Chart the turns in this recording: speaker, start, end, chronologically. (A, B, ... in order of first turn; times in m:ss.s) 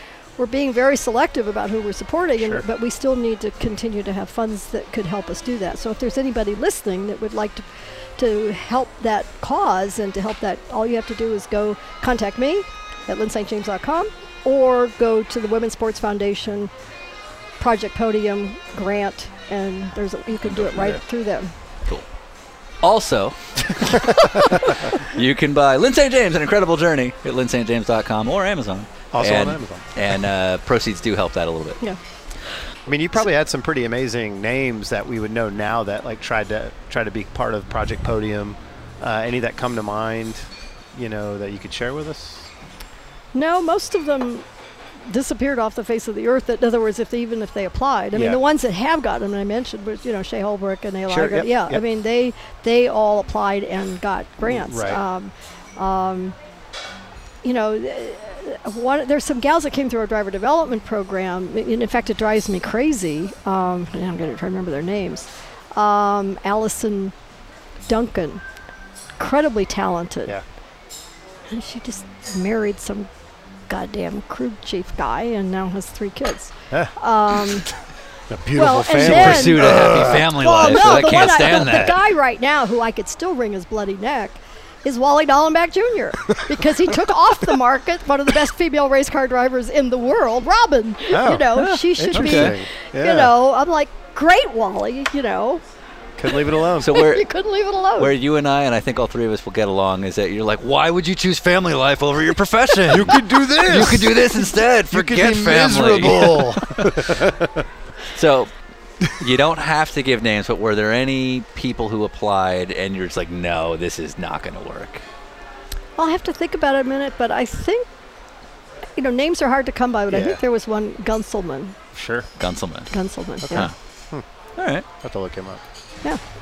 0:00.4-0:16.7 A
0:17.6-0:21.5 A
0:20.4-0:21.0 B
0:22.8-0:31.8 B
0:29.1-0:29.8 C
0:32.8-0:42.5 C
0:43.3-0:44.4 A
0:45.0-0:56.4 A
0:48.1-0:48.4 C
0:51.1-0:51.8 C
0:54.4-0:55.0 C
0:57.4-1:07.1 A
1:07.9-1:08.4 A
1:09.2-1:10.4 A
1:11.5-1:13.1 A
1:13.7-1:17.7 A
1:18.3-1:20.6 C
1:18.5-1:35.6 A
1:18.9-1:22.0 B
1:31.1-1:33.3 C
1:31.5-1:32.5 B
1:36.2-1:37.0 C
1:36.3-1:38.1 A
1:36.8-1:37.3 B
1:38.0-1:46.9 B
1:42.9-1:47.6 C
1:48.1-1:48.5 B
1:49.1-1:55.0 B
1:56.0-1:57.9 A
1:59.0-2:01.8 A
2:00.1-2:00.4 C
2:01.9-2:02.3 C
2:02.4-2:02.9 B
2:02.9-2:03.7 A
2:03.4-2:04.2 C
2:04.6-2:04.8 B
2:05.0-2:05.6 C